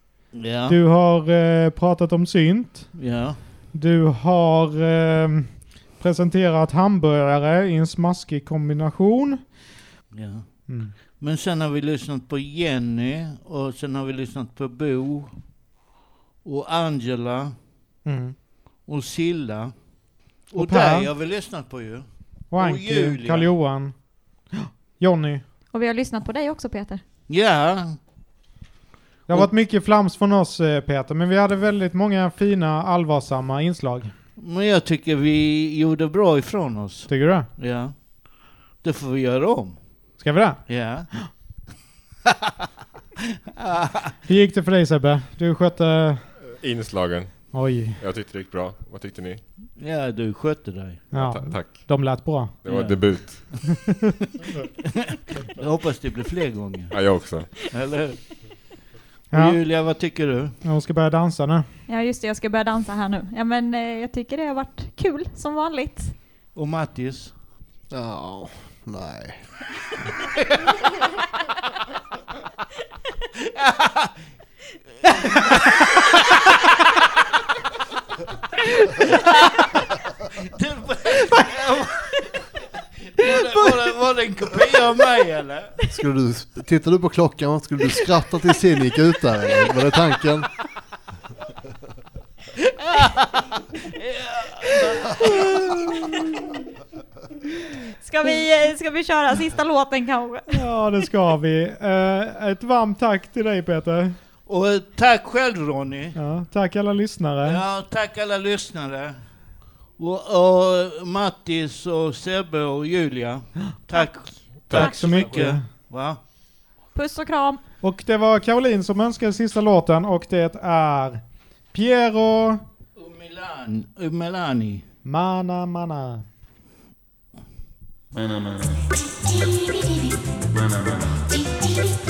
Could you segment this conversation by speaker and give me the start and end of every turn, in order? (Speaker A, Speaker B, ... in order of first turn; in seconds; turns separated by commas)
Speaker A: 0.3-0.8, Speaker B: 0.7-3.0, Speaker A: 2.9-3.4, Speaker B: 3.7-9.4, Speaker A: 10.1-10.5, Speaker B: 10.7-10.9, Speaker A: 11.1-15.3, Speaker A: 16.4-17.5, Speaker B: 18.0-18.4, Speaker A: 18.9-19.7, Speaker A: 20.5-23.5, Speaker B: 20.6-21.1, Speaker B: 22.5-24.0, Speaker B: 24.5-25.4, Speaker C: 25.7-27.0, Speaker A: 27.3-28.0, Speaker B: 29.3-34.1, Speaker A: 34.4-37.9, Speaker B: 37.1-37.5, Speaker A: 38.8-40.1, Speaker B: 40.2-40.6, Speaker A: 40.7-41.1, Speaker A: 43.6-44.1, Speaker B: 44.3-46.2, Speaker D: 46.6-49.4, Speaker B: 47.5-48.0, Speaker A: 49.8-51.1, Speaker D: 51.1-51.9, Speaker B: 51.1-52.6, Speaker D: 52.6-53.4, Speaker A: 52.7-53.7, Speaker A: 54.9-56.9, Speaker D: 56.9-57.5, Speaker A: 57.5-58.2, Speaker B: 59.3-59.6, Speaker A: 59.3-60.6, Speaker B: 60.6-61.7, Speaker C: 61.9-66.2, Speaker A: 66.5-67.3, Speaker E: 67.9-69.4, Speaker A: 73.4-74.1, Speaker A: 75.3-75.9, Speaker A: 78.7-79.6, Speaker A: 80.3-82.1, Speaker A: 83.0-85.7, Speaker E: 85.9-90.5, Speaker A: 92.8-95.6, Speaker C: 98.0-100.6, Speaker B: 100.5-104.2, Speaker A: 104.5-106.2, Speaker B: 106.2-107.6, Speaker A: 107.4-109.2, Speaker A: 110.0-116.2, Speaker B: 114.7-115.6, Speaker C: 116.9-117.6, Speaker B: 117.8-121.2, Speaker B: 121.7-122.6, Speaker A: 123.0-124.8, Speaker B: 125.0-126.2